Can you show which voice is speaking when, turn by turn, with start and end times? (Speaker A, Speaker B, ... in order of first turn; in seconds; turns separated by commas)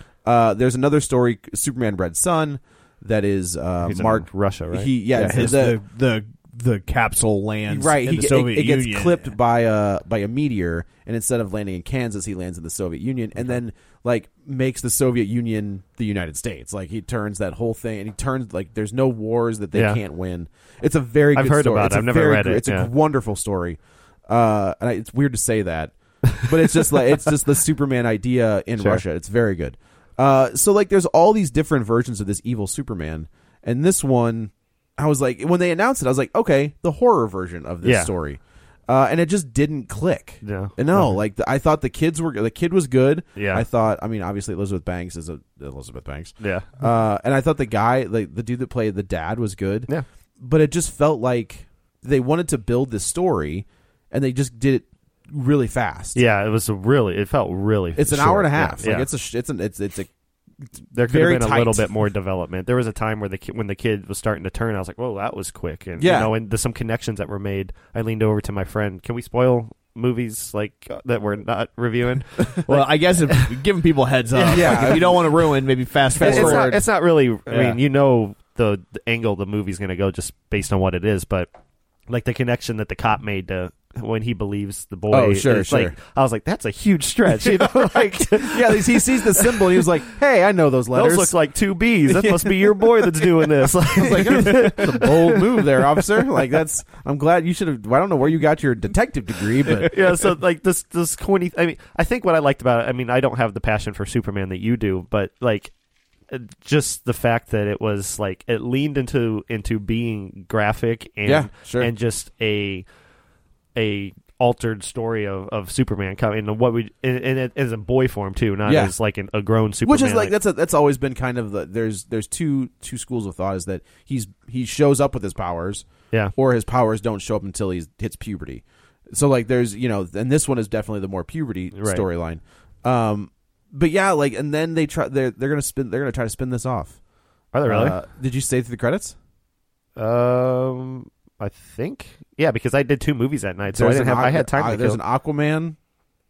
Speaker A: 0.2-5.8, Speaker B: 3.8-4.9, Speaker C: 5.1-9.3, Speaker A: 7.7-49.9, Speaker B: 19.7-20.0, Speaker B: 21.3-22.9, Speaker B: 37.8-38.1, Speaker B: 40.4-41.2, Speaker B: 43.4-43.6, Speaker B: 46.4-46.7, Speaker A: 50.4-56.2, Speaker B: 56.1-59.1, Speaker A: 58.0-60.1, Speaker B: 60.9-73.6, Speaker A: 61.0-61.9, Speaker A: 66.0-66.3, Speaker C: 72.7-76.8, Speaker B: 74.3-75.3, Speaker A: 74.4-75.4, Speaker A: 76.2-76.8, Speaker B: 76.2-81.5, Speaker C: 77.5-77.8, Speaker B: 82.1-89.9, Speaker A: 85.1-86.0, Speaker A: 87.4-91.3, Speaker B: 90.9-95.7, Speaker A: 92.1-100.3, Speaker B: 99.7-105.7, Speaker B: 106.3-112.8, Speaker A: 111.2-111.9, Speaker B: 113.7-120.3, Speaker A: 118.7-118.9, Speaker A: 119.8-137.0, Speaker B: 131.7-132.0, Speaker B: 137.5-138.0, Speaker A: 137.7-139.2, Speaker B: 139.9-145.0, Speaker A: 143.7-145.8